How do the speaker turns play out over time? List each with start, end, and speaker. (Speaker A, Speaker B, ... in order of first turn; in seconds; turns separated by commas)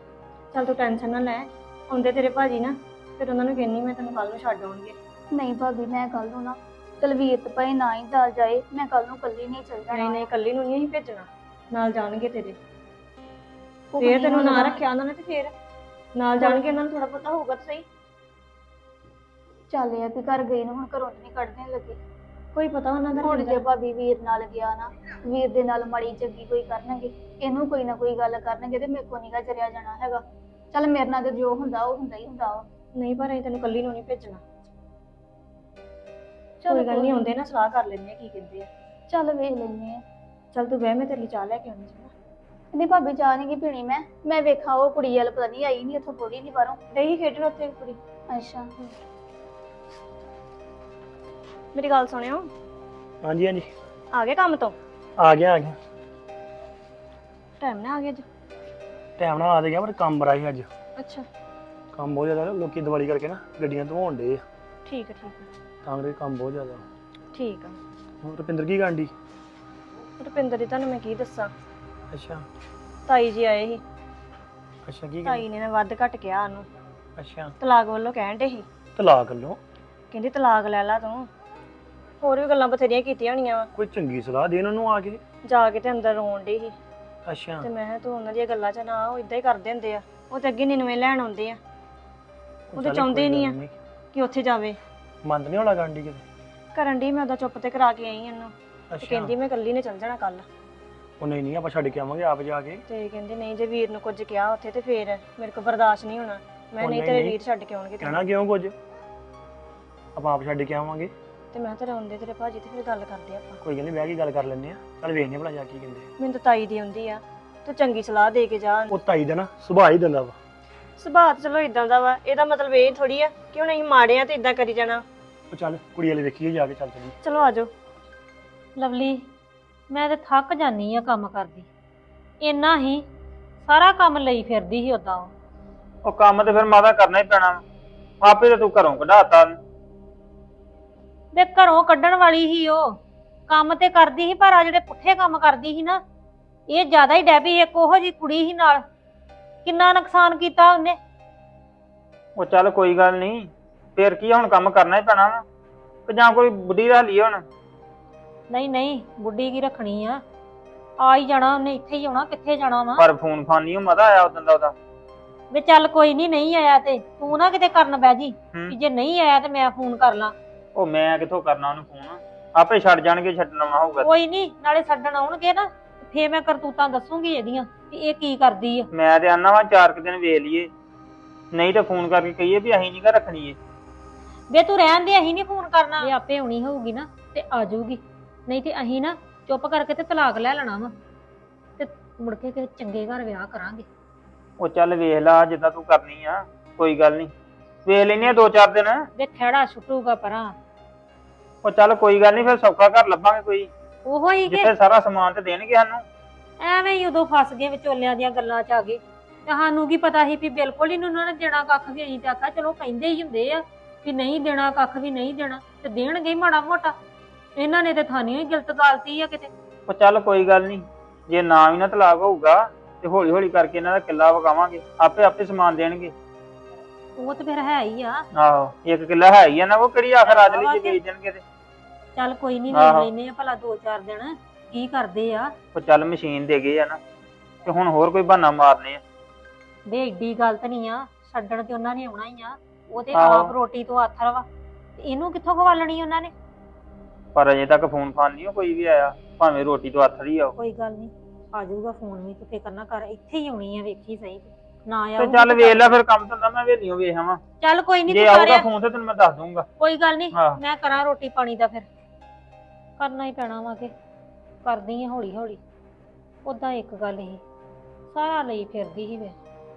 Speaker A: 0.5-4.9, Speaker B: 5.3-10.3, Speaker A: 9.9-12.6, Speaker B: 13.9-14.8, Speaker A: 14.0-15.5, Speaker A: 16.1-17.9, Speaker B: 16.4-16.7, Speaker B: 19.7-22.0, Speaker A: 22.5-23.6, Speaker B: 23.2-30.2, Speaker B: 30.7-32.7, Speaker A: 33.0-34.4, Speaker B: 36.6-37.3, Speaker A: 36.7-38.7, Speaker B: 39.1-40.0, Speaker A: 40.5-42.1, Speaker B: 42.7-46.8, Speaker A: 46.9-48.0, Speaker B: 48.3-48.7, Speaker A: 51.7-52.5, Speaker C: 53.2-53.7, Speaker A: 54.1-54.8, Speaker C: 55.2-55.8, Speaker A: 57.6-58.2, Speaker C: 59.2-60.7, Speaker A: 61.0-61.3, Speaker C: 61.9-64.4, Speaker A: 64.8-65.5, Speaker C: 65.8-66.8, Speaker A: 67.3-67.8, Speaker C: 68.2-69.1, Speaker A: 70.2-71.5, Speaker C: 72.1-72.5, Speaker A: 73.1-73.8, Speaker C: 74.8-75.4, Speaker A: 75.2-76.7, Speaker C: 77.2-77.5, Speaker A: 77.6-78.7, Speaker C: 79.0-79.6, Speaker A: 80.1-81.3, Speaker A: 82.2-83.7, Speaker C: 83.7-85.2, Speaker A: 85.4-86.8, Speaker C: 87.2-87.7, Speaker A: 87.6-91.6, Speaker C: 92.7-93.7, Speaker A: 92.7-93.5, Speaker A: 94.1-94.8, Speaker C: 95.2-96.2, Speaker A: 96.7-100.5, Speaker C: 98.9-99.3, Speaker C: 101.2-102.8, Speaker A: 102.9-108.2, Speaker C: 106.8-107.4, Speaker C: 108.0-108.8, Speaker C: 110.1-111.1, Speaker A: 111.5-113.6, Speaker C: 113.6-116.0, Speaker A: 116.2-118.9, Speaker C: 118.9-120.4, Speaker A: 121.0-125.0, Speaker C: 125.5-127.1, Speaker A: 127.2-127.7, Speaker D: 128.8-129.2, Speaker D: 129.9-131.7, Speaker D: 132.4-133.0, Speaker D: 133.6-135.3, Speaker E: 136.0-137.6, Speaker E: 138.2-139.6, Speaker D: 141.3-142.9, Speaker D: 143.5-146.0, Speaker D: 146.7-148.8, Speaker D: 149.6-151.0, Speaker E: 152.4-155.4, Speaker E: 156.1-157.4, Speaker D: 158.5-160.2, Speaker D: 161.0-163.0, Speaker E: 163.0-164.7, Speaker D: 165.5-170.3, Speaker E: 170.8-174.1, Speaker D: 174.0-178.9, Speaker E: 178.9-180.7, Speaker E: 181.5-183.6, Speaker D: 184.5-190.9, Speaker D: 191.8-193.8, Speaker E: 194.6-197.3, Speaker E: 197.8-199.0, Speaker D: 199.2-200.5, Speaker E: 201.6-203.7, Speaker D: 204.0-204.7, Speaker E: 204.5-206.0, Speaker D: 206.6-216.9, Speaker D: 217.6-219.5, Speaker E: 219.9-226.1, Speaker D: 227.2-228.2, Speaker E: 228.3-231.4, Speaker D: 230.2-231.0, Speaker D: 232.2-235.5, Speaker E: 232.7-233.1, Speaker E: 235.7-237.0, Speaker E: 237.6-239.0, Speaker D: 239.9-244.4, Speaker E: 243.1-243.5, Speaker D: 245.0-246.3, Speaker E: 247.3-250.5, Speaker D: 250.6-256.0, Speaker E: 255.2-257.4, Speaker D: 257.6-258.7, Speaker E: 258.1-259.7, Speaker D: 259.8-261.9, Speaker D: 263.0-263.9, Speaker D: 264.6-265.6, Speaker D: 266.4-267.4, Speaker D: 268.1-269.4